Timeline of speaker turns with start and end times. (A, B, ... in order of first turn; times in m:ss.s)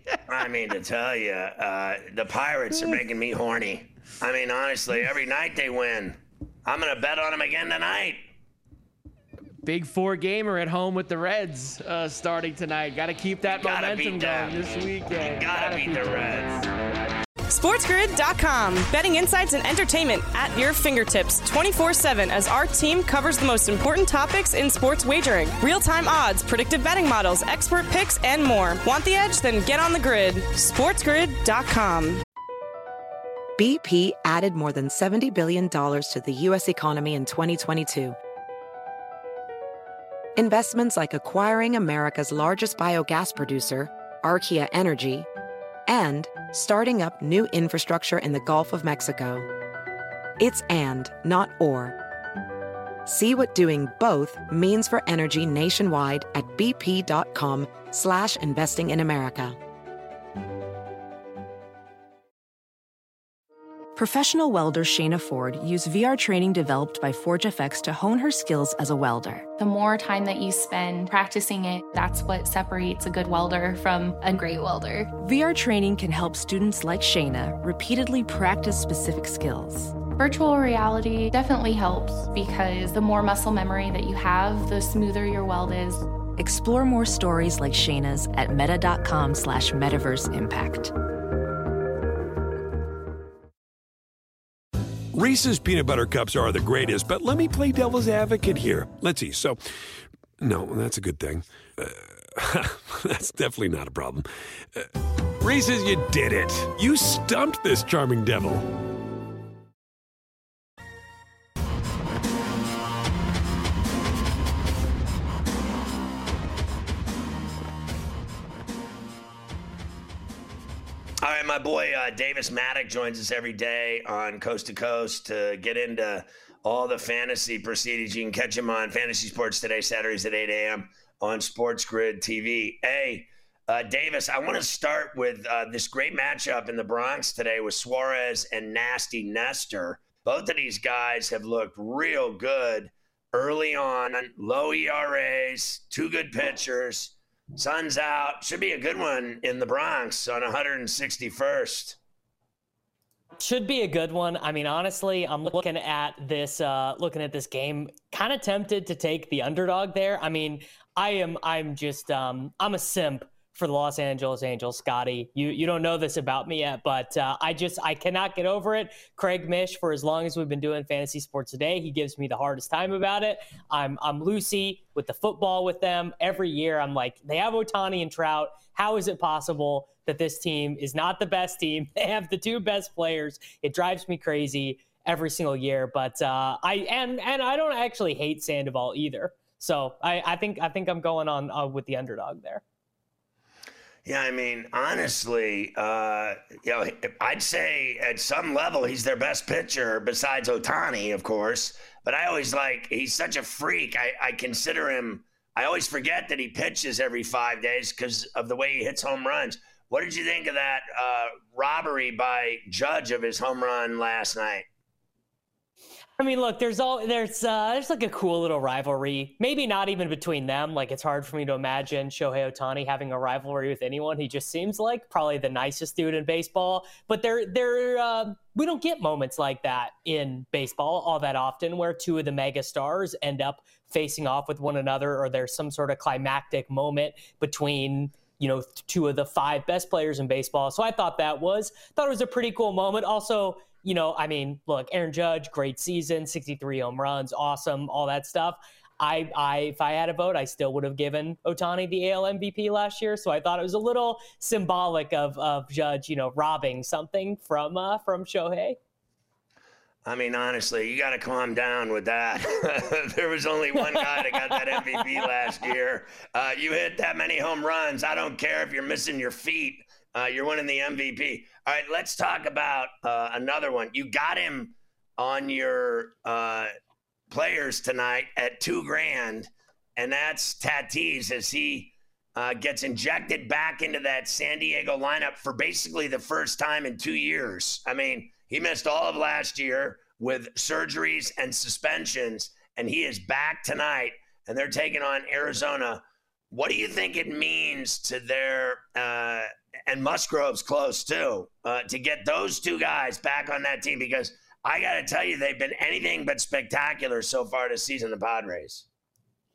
0:00.3-0:08.2 A
0:09.6-0:16.7 B
0:13.5-0:16.6 A
0:17.5-0:32.2 C
0:33.6-0:38.2 D
0:40.4-0:45.3 D
0:45.9-0:49.5 D
0:50.4-0:52.0 D
0:53.1-0:59.6 D
1:04.0-1:09.5 E
1:09.6-1:15.1 F
1:15.2-1:20.0 E
1:20.1-1:26.1 F
1:26.4-1:30.9 E
1:35.1-1:39.6 G
1:40.4-1:48.7 G
2:01.2-2:32.0 A
2:33.4-3:12.6 H
3:14.0-3:34.7 A
3:36.2-4:18.8 H
4:20.0-4:36.7 A
4:37.3-5:08.8 A